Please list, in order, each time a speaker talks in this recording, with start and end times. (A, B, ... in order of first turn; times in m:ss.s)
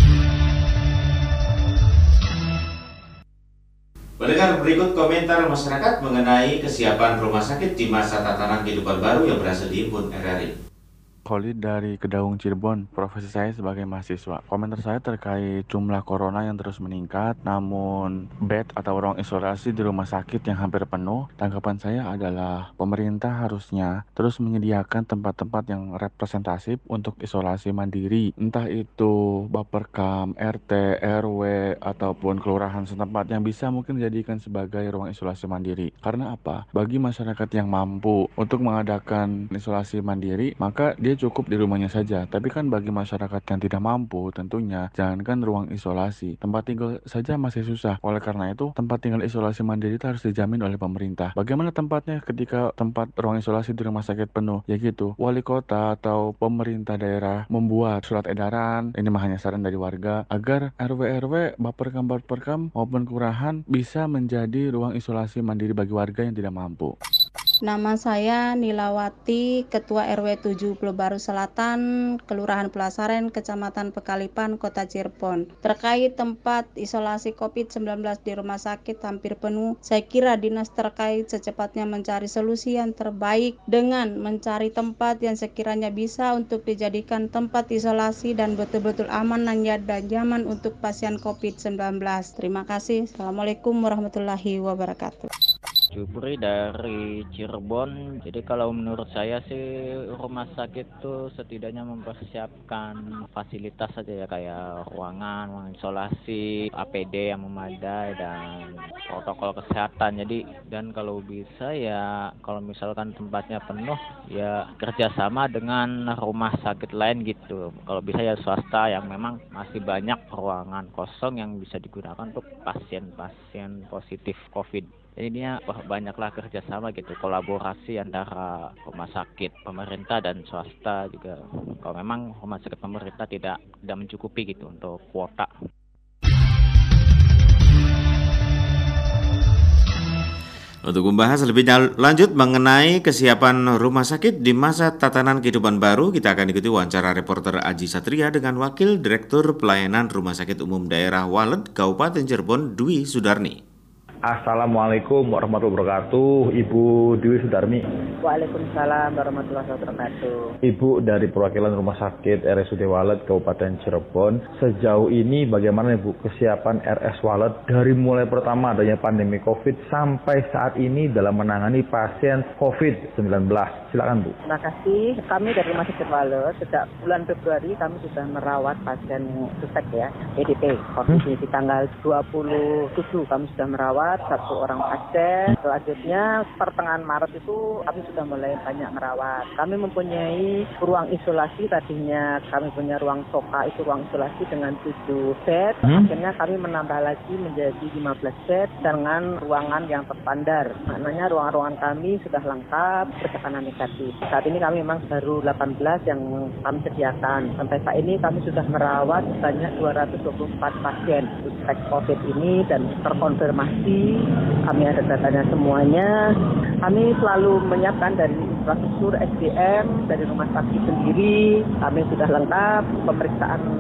0:04.2-0:10.5 A
0:11.2-1:06.9 B
1:07.7-1:35.3 C
1:35.9-2:15.5 D
2:20.8-2:33.6 A
2:34.2-2:37.9 E
2:38.2-2:40.4 F
2:40.6-2:54.3 E
2:54.5-3:36.1 F
3:15.8-3:16.1 E
3:36.8-3:43.6 F